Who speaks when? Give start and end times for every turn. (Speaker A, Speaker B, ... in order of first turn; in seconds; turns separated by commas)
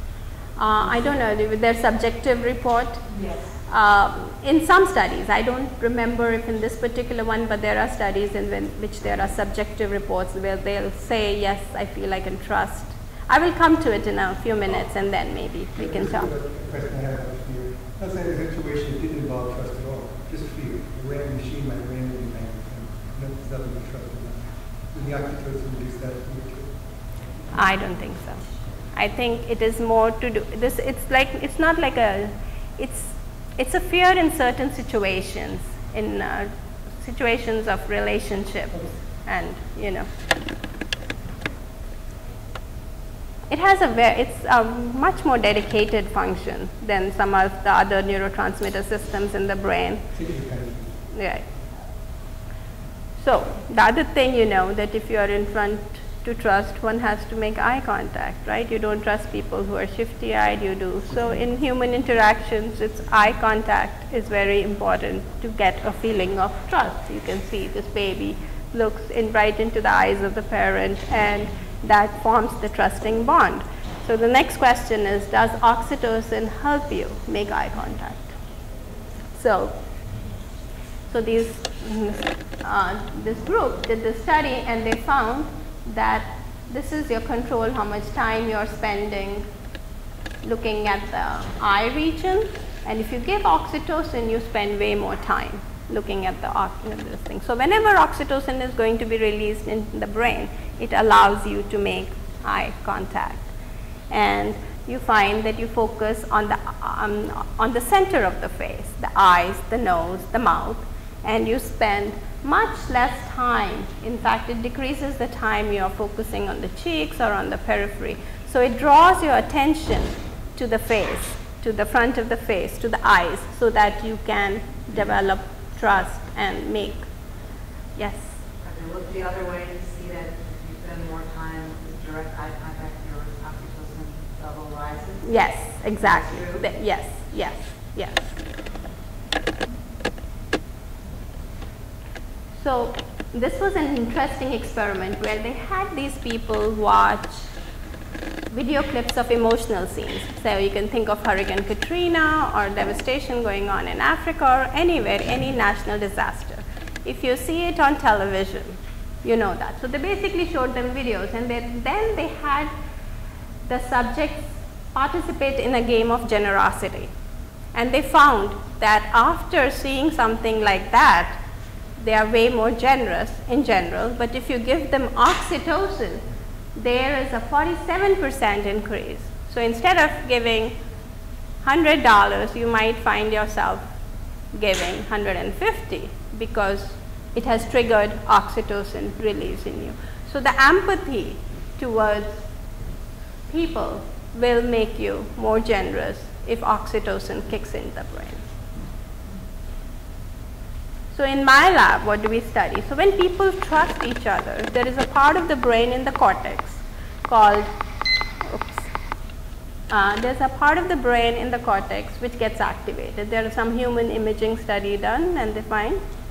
Speaker A: 0.6-3.0, Speaker B: 3.1-3.4, Speaker A: 3.7-16.3, Speaker C: 15.8-26.7, Speaker A: 27.5-28.4, Speaker A: 28.9-40.1, Speaker A: 43.5-50.1, Speaker C: 50.1-51.0, Speaker A: 51.1-51.5, Speaker A: 53.2-78.3, Speaker A: 79.3-79.8, Speaker A: 81.1-89.5, Speaker A: 90.4-103.5, Speaker A: 104.1-127.1, Speaker A: 128.0-128.4, Speaker B: 128.6-136.7, Speaker A: 135.2-138.3, Speaker A: 142.6-147.5, Speaker A: 148.5-162.7, Speaker A: 163.7-167.1, Speaker A: 167.7-171.4, Speaker A: 172.0-176.2, Speaker A: 176.8-180.8, Speaker A: 181.6-183.8, Speaker A: 184.5-192.5, Speaker A: 193.5-198.4, Speaker A: 201.1-207.7, Speaker A: 208.4-208.9, Speaker A: 209.9-216.0